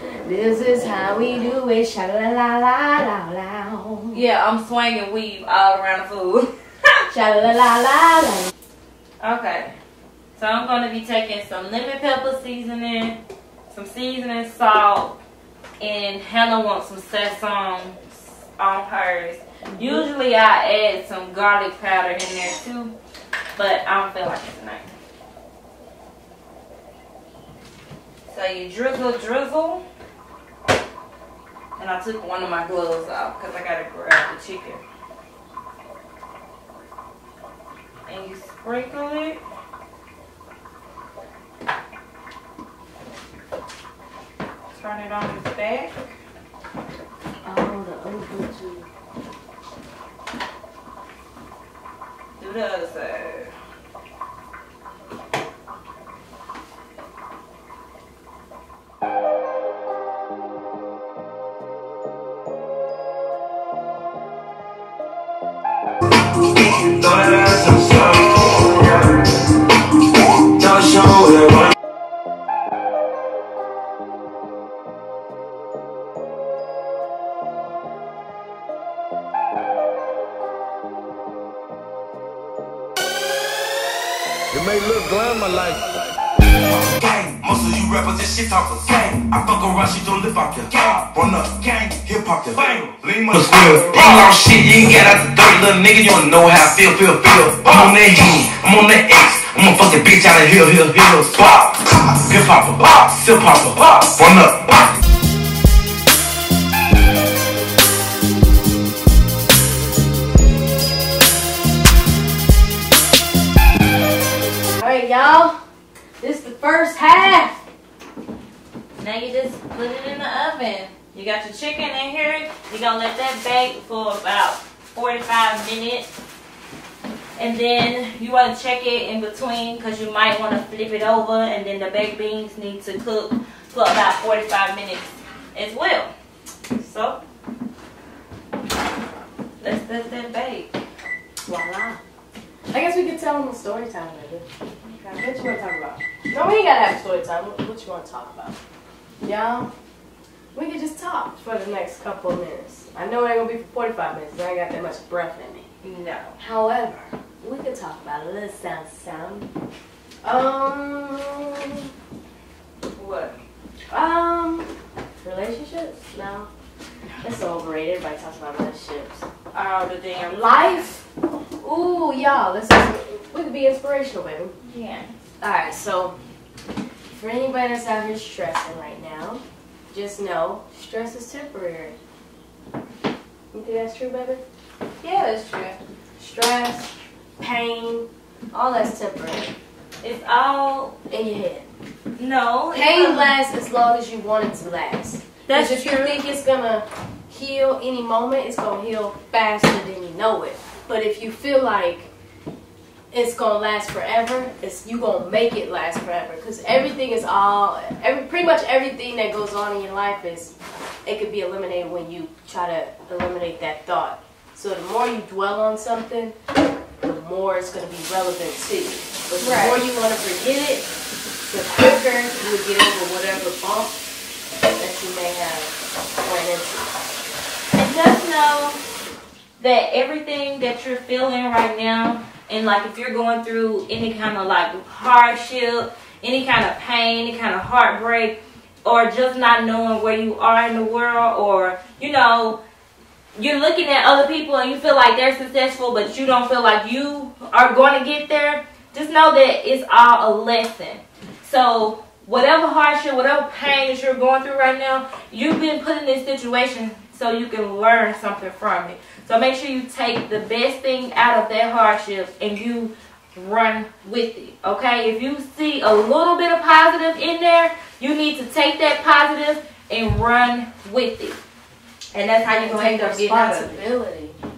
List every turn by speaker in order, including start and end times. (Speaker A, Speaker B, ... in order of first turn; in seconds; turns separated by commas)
Speaker A: 0.2-4.2, Speaker B: 4.1-7.1, Speaker A: 7.1-8.5, Speaker B: 9.2-9.7, Speaker B: 10.4-13.2, Speaker B: 13.7-15.2, Speaker B: 15.8-22.9, Speaker A: 19.7-20.1, Speaker B: 23.6-24.9, Speaker B: 28.3-29.8, Speaker B: 31.8-34.8, Speaker B: 38.1-39.4, Speaker B: 44.7-46.1, Speaker A: 47.4-48.9, Speaker B: 52.4-53.5, Speaker C: 66.1-71.7, Speaker D: 84.5-86.1, Speaker C: 86.7-105.0, Speaker D: 93.6-94.0, Speaker A: 114.8-115.6, Speaker A: 116.2-117.6, Speaker B: 119.0-126.1, Speaker B: 127.4-136.1, Speaker B: 136.7-137.2, Speaker B: 139.6-140.8, Speaker A: 141.4-142.0, Speaker A: 142.7-144.4, Speaker B: 144.8-145.3, Speaker A: 145.2-148.6, Speaker A: 149.2-149.7, Speaker A: 150.5-155.7, Speaker B: 155.8-156.4, Speaker A: 156.4-159.5, Speaker A: 160.2-161.9, Speaker B: 163.0-163.3, Speaker A: 163.9-166.5, Speaker A: 167.2-169.3, Speaker B: 169.5-170.9, Speaker A: 170.2-171.0, Speaker A: 171.6-174.5, Speaker B: 174.6-175.1, Speaker A: 175.4-176.2, Speaker A: 177.1-182.0, Speaker A: 183.5-184.4, Speaker B: 185.0-185.8, Speaker A: 186.2-189.5, Speaker B: 190.0-190.9, Speaker A: 191.1-191.7, Speaker B: 192.2-193.3, Speaker A: 192.7-202.1, Speaker B: 195.5-196.2, Speaker A: 203.1-210.5, Speaker A: 211.0-216.3, Speaker A: 217.0-220.9, Speaker B: 219.4-219.8, Speaker A: 221.5-223.9, Speaker A: 224.8-227.0, Speaker B: 227.7-228.8, Speaker B: 229.6-242.6, Speaker B: 243.3-271.4, Speaker B: 272.1-273.9, Speaker A: 272.5-274.4